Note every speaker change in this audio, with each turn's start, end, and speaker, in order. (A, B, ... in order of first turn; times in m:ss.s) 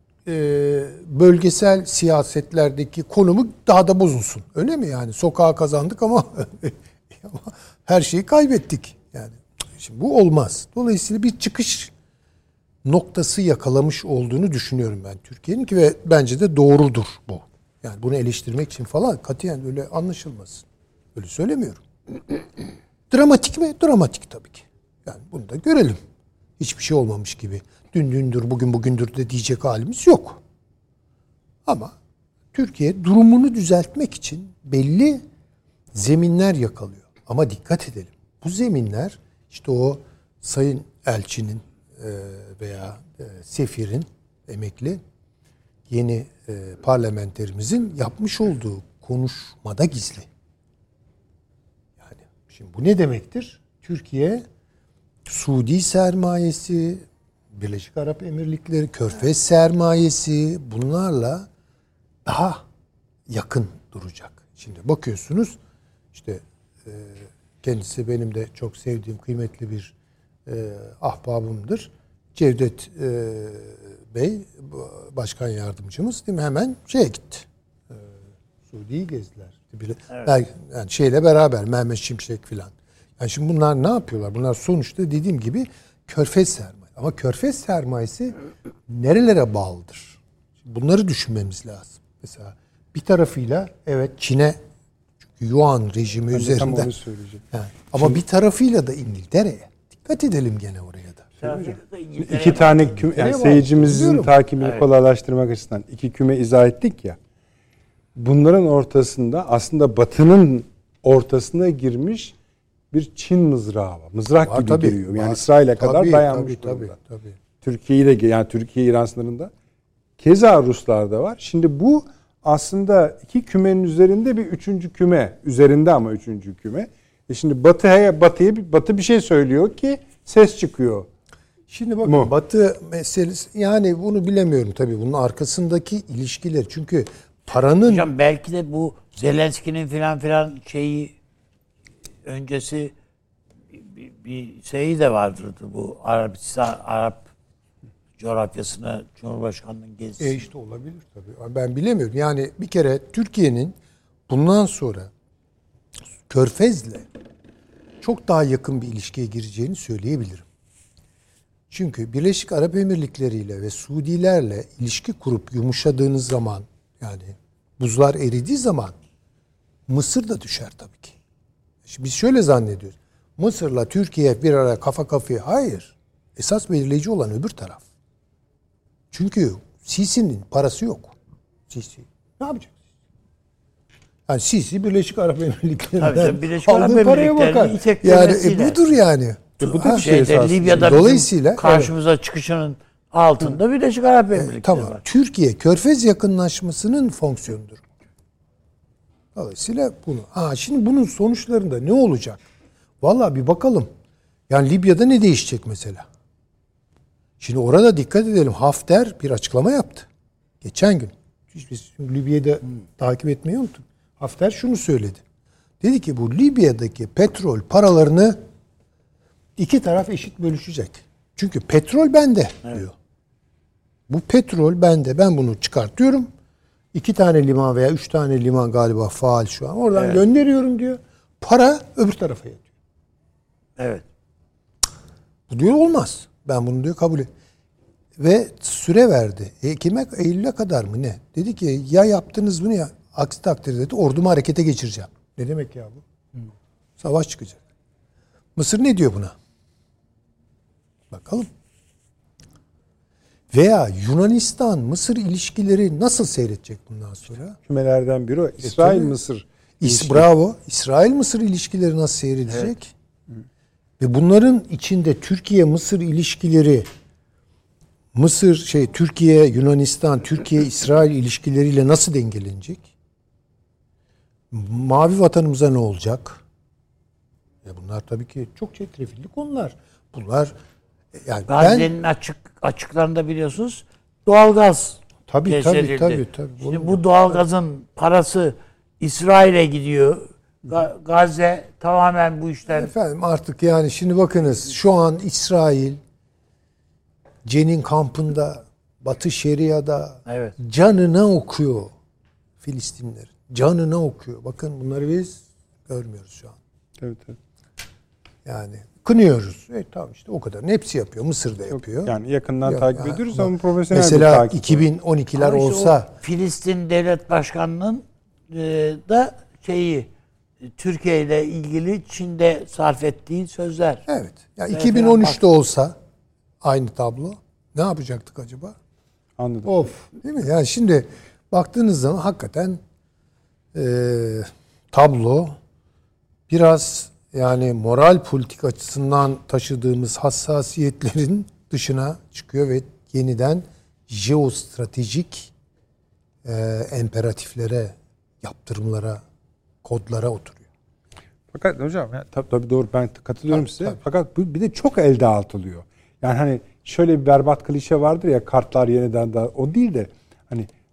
0:00.2-0:11.9 A
0:12.8-0:21.8 A
0:23.1-0:26.0 A
0:26.6-0:30.4 A
0:31.6-0:32.0 A
0:32.5-0:35.2 A
0:35.9-0:45.0 A
0:45.9-0:50.3 A
0:52.0-0:54.4 A
0:55.3-1:01.5 A
1:02.2-1:02.6 A
1:03.3-1:05.6 A
1:06.1-1:09.9 A
1:10.5-1:18.0 A
1:18.7-1:28.4 A
1:28.9-1:34.6 A
1:35.4-1:36.9 A
1:36.3-1:37.4 B
1:37.5-1:41.3 A
1:41.4-1:47.2 B
1:41.4-1:43.0 C
1:43.1-1:44.3 A
1:48.2-1:52.3 B
1:52.9-1:57.0 B
1:54.4-1:57.4 A
1:57.6-1:59.5 B
2:00.2-2:11.1 B
2:11.7-2:18.1 A
2:12.0-2:12.3 B
2:17.9-2:21.1 C
2:22.2-2:22.9 C
2:23.7-2:27.3 C
2:28.2-2:30.4 C
2:30.2-2:33.8 A
2:34.3-2:35.1 A
2:36.3-2:37.1 A
2:38.0-2:40.5 A
2:41.7-2:49.0 A
2:49.9-2:51.2 A
2:51.8-2:57.8 A
2:59.1-3:01.2 A
3:01.7-3:02.8 A
3:04.3-3:07.3 A
3:06.0-3:08.8 C
3:06.7-3:07.8 B
3:08.0-3:10.1 A
3:09.6-3:11.0 B
3:09.6-3:15.0 C
3:10.6-3:11.9 A
3:14.4-3:17.8 A
3:19.3-3:22.4 A
3:23.0-3:23.9 A
3:24.5-3:26.1 A
3:27.4-3:30.1 A
3:30.6-3:35.2 A
3:35.8-3:38.4 A
3:39.6-3:42.9 A
3:44.1-3:46.3 A
3:46.9-3:52.7 A
3:50.0-3:50.2 C
3:53.8-3:54.0 C
3:55.5-3:57.3 A
3:58.2-4:06.0 A
4:07.0-4:07.6 A
4:08.6-4:09.4 A
4:11.1-4:11.5 A
4:13.5-4:17.6 A
4:17.7-4:20.3 B
4:18.6-4:19.1 A
4:19.8-4:22.9 A
4:24.0-4:26.9 A
4:28.1-4:32.9 A
4:34.5-4:36.4 A
4:37.6-4:40.6 A
4:41.2-4:41.9 A
4:41.5-4:52.9 C
4:45.3-4:47.4 A
4:52.7-4:56.0 A
4:57.4-5:01.9 A
5:00.3-5:00.6 C
5:02.6-5:06.6 A
5:07.0-5:07.4 B
5:08.4-5:12.1 A
5:11.7-5:14.8 B
5:12.6-5:16.1 A
5:15.4-5:20.1 C
5:20.8-5:24.1 C
5:24.1-5:26.0 A
5:24.7-5:25.4 C
5:26.6-5:28.8 A
5:29.4-5:30.0 B
5:29.7-5:32.8 A
5:33.7-5:35.6 A
5:36.5-5:45.5 A
5:46.4-5:49.2 A
5:49.8-5:50.7 A
5:51.5-6:00.7 B
5:53.5-5:54.0 A